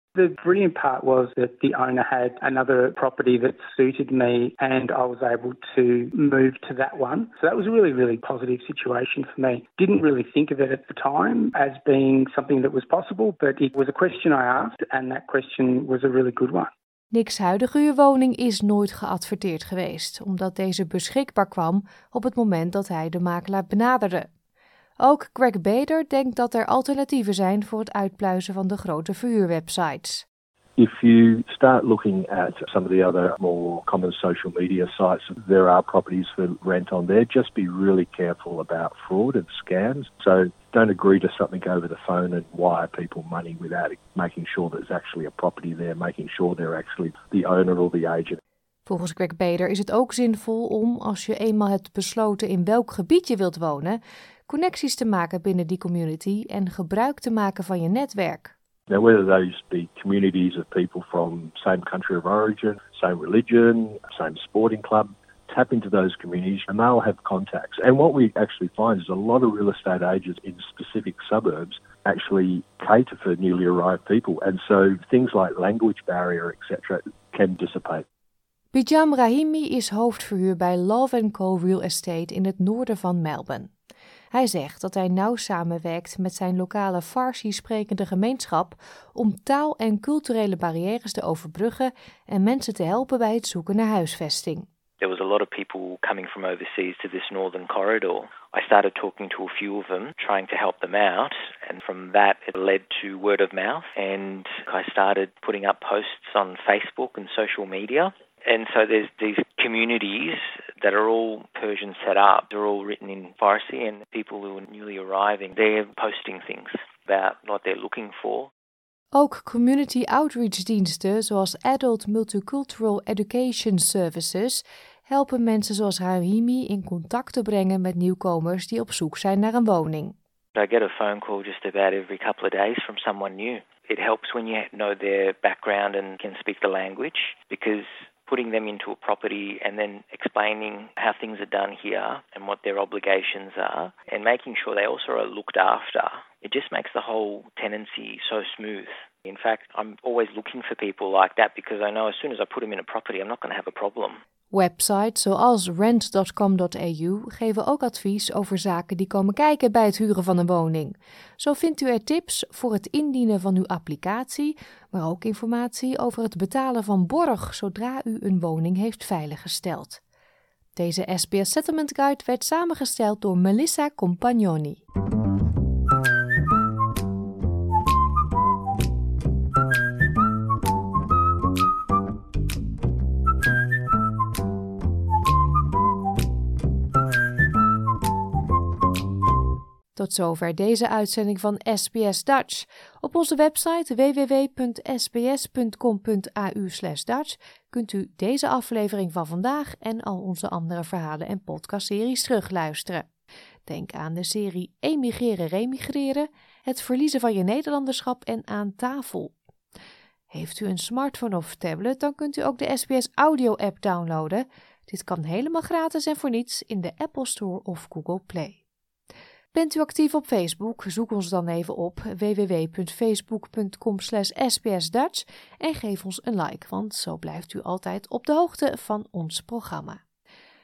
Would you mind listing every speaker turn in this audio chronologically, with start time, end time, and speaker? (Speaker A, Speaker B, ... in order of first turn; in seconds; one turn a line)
Speaker A: 0.1-16.7
Speaker B: 17.1-24.3
Speaker B: 25.0-30.2
Speaker C: 30.8-48.4
Speaker B: 48.9-58.5
Speaker C: 58.9-78.0
Speaker B: 78.7-83.7
Speaker B: 84.3-94.7
Speaker D: 95.0-118.5
Speaker B: 119.1-130.1
Speaker D: 130.6-154.2
Speaker B: 154.5-170.0
Speaker B: 170.8-174.8
Speaker B: 189.9-203.1
Speaker B: 203.7-209.3
Speaker B: 210.3-218.6
Speaker B: 219.5-230.0